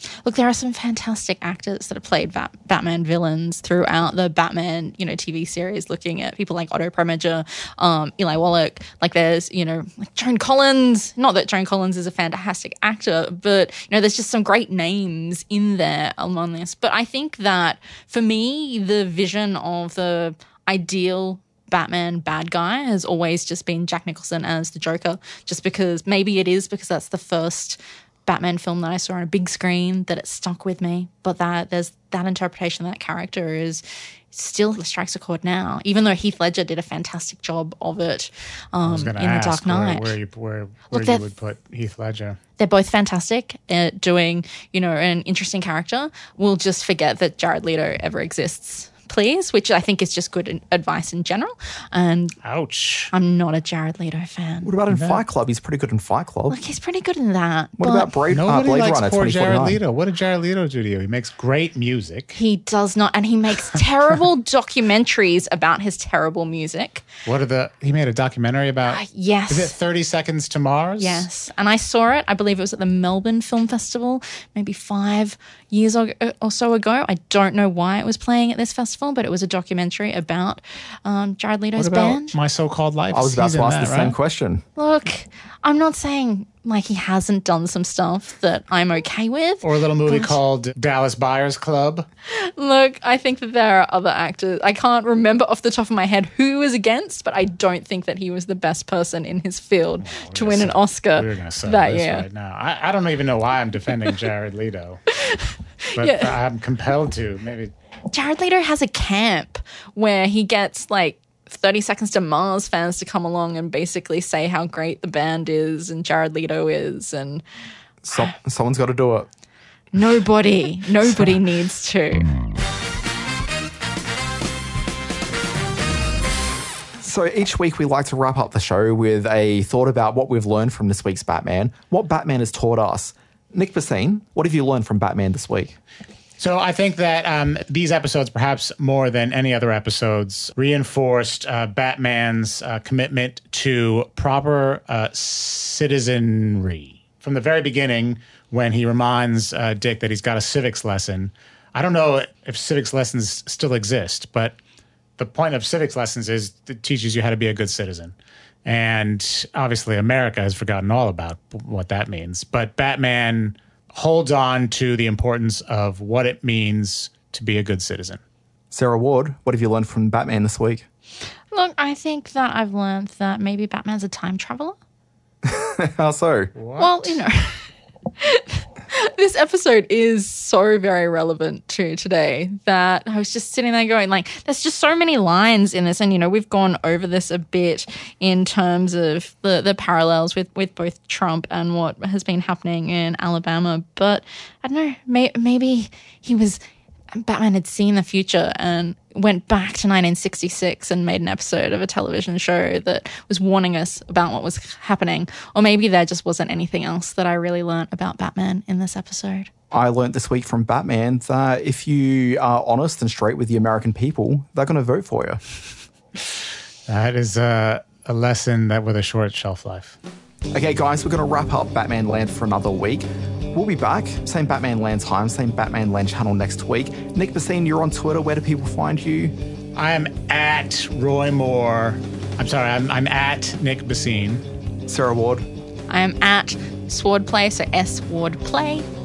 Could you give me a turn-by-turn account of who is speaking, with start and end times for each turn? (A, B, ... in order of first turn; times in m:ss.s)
0:00.2-0:40.1 A
0:38.8-0:42.4 B
0:40.9-0:41.2 A
0:42.6-0:52.4 A
0:52.4-0:53.1 B
0:53.1-0:54.7 A
0:54.6-0:56.6 C
0:54.9-0:55.2 B
0:56.5-0:58.1 A
0:57.8-0:59.8 C
0:58.3-1:02.4 B
1:02.3-1:07.0 A
1:07.2-1:11.3 B
1:08.9-1:09.8 A
1:11.0-1:22.3 A
1:21.8-1:24.2 B
1:23.1-1:24.6 C
1:24.8-1:30.4 A
1:29.6-1:32.1 B
1:32.2-1:42.2 A
1:40.0-1:45.0 B
1:45.2-1:46.3 A
1:45.9-1:47.7 B
1:48.1-1:57.4 A
1:58.0-1:59.3 C
1:59.9-2:02.3 A
2:07.0-2:15.8 C
2:16.4-2:34.6 B
2:35.2-2:48.2 B
2:48.7-2:50.8 C
2:51.5-2:54.8 A
2:55.4-2:56.5 C
2:56.5-2:57.2 B
2:56.8-2:57.7 A
2:58.2-3:16.6 A
3:17.1-3:29.5 A
3:29.7-3:35.4 C
3:36.9-3:40.0 B
3:40.5-3:49.3 C
3:49.7-3:54.4 B
3:54.8-3:55.5 C
3:55.9-3:58.9 A